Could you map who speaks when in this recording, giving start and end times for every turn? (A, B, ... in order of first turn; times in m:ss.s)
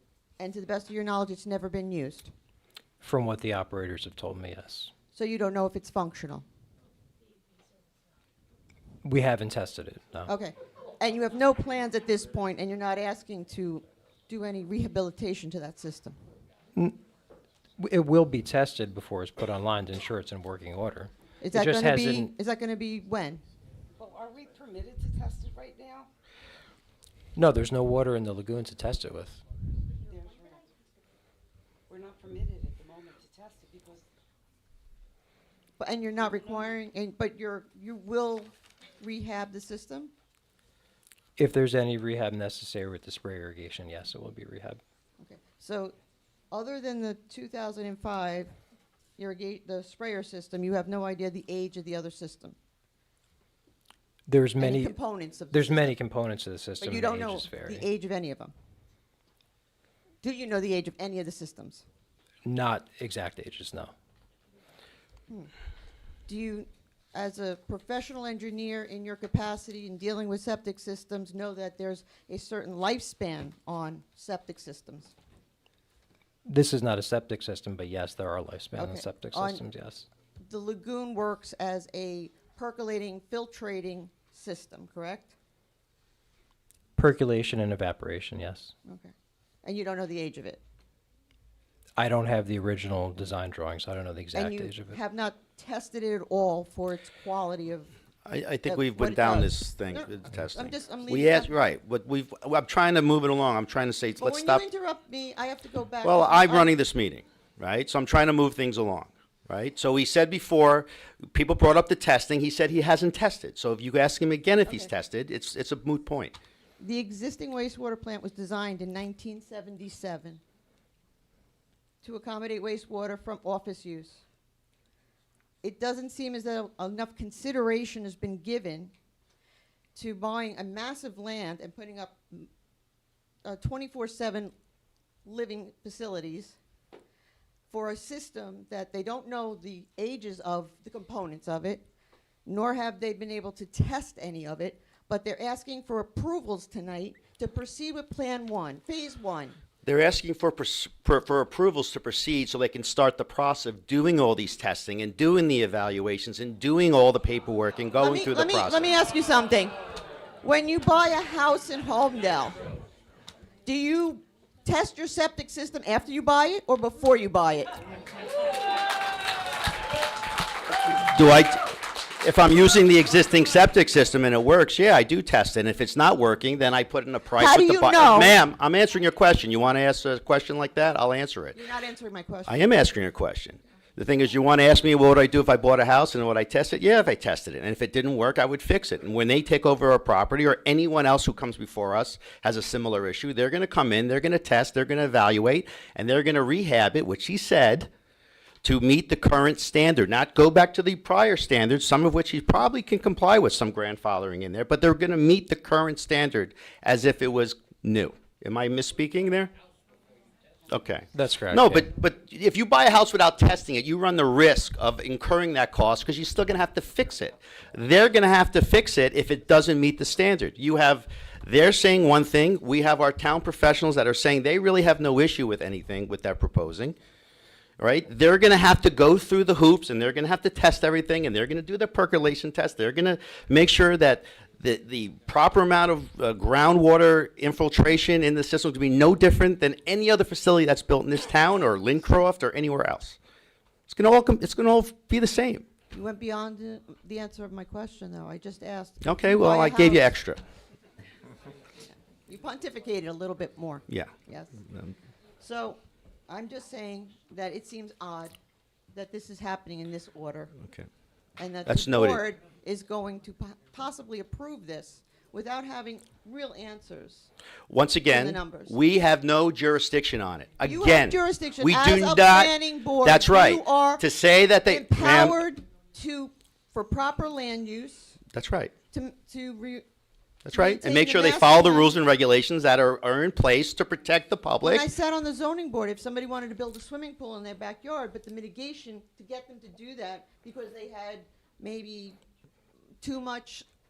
0:00.4-0:02.3 A
0:03.0-0:04.9 B
0:05.2-0:06.4 A
0:09.0-0:10.3 B
0:10.3-0:16.2 A
0:17.8-0:22.3 B
0:21.4-0:23.4 A
0:24.0-0:26.1 C
0:27.4-0:29.4 B
0:30.1-0:30.6 C
0:31.9-0:34.1 C
0:35.8-0:40.1 A
0:41.4-0:44.8 B
0:45.2-0:45.9 A
0:46.5-0:48.5 A
0:49.2-0:52.6 A
0:54.3-0:54.9 B
0:54.6-0:55.9 A
0:55.5-0:57.9 B
0:56.8-0:58.5 A
1:00.2-1:01.8 A
1:02.4-1:03.9 B
1:06.3-1:15.1 A
1:16.5-1:20.1 B
1:18.8-1:19.6 A
1:20.5-1:25.3 A
1:27.0-1:28.7 B
1:28.9-1:29.1 A
1:29.6-1:30.6 A
1:32.0-1:35.0 B
1:34.4-1:37.9 A
1:38.3-1:44.6 D
1:38.7-1:41.5 A
1:44.2-1:46.8 A
1:46.0-1:56.4 D
1:56.8-2:00.4 A
2:02.0-2:04.2 A
2:05.6-2:08.9 A
2:10.0-2:12.5 A
2:13.4-2:14.5 A
2:15.3-2:16.6 A
2:17.7-2:21.8 A
2:22.5-2:29.6 A
2:29.8-2:38.9 D
2:38.0-2:39.8 A
2:40.4-2:42.6 A
2:43.7-2:47.8 A
2:51.1-2:51.7 D
2:52.2-3:01.6 D
2:57.4-2:58.4 A
3:01.5-3:02.6 A
3:02.5-3:17.9 D
3:18.6-3:29.5 D
3:30.7-3:47.0 D
3:31.1-3:31.9 B
3:47.8-4:03.2 D
4:03.9-4:05.6 D
4:05.9-4:10.1 A
4:09.0-4:10.4 D
4:11.9-4:14.6 A
4:15.4-4:18.3 A
4:18.9-4:20.5 A
4:21.4-4:27.3 A
4:21.7-4:22.2 D
4:27.7-4:35.4 D
4:28.1-4:28.8 A
4:30.6-4:34.0 A
4:34.7-4:38.2 A
4:38.3-4:38.7 D
4:38.9-4:39.8 A
4:40.4-4:44.9 D
4:40.5-4:41.9 A
4:44.6-4:52.2 A
4:53.0-4:53.6 A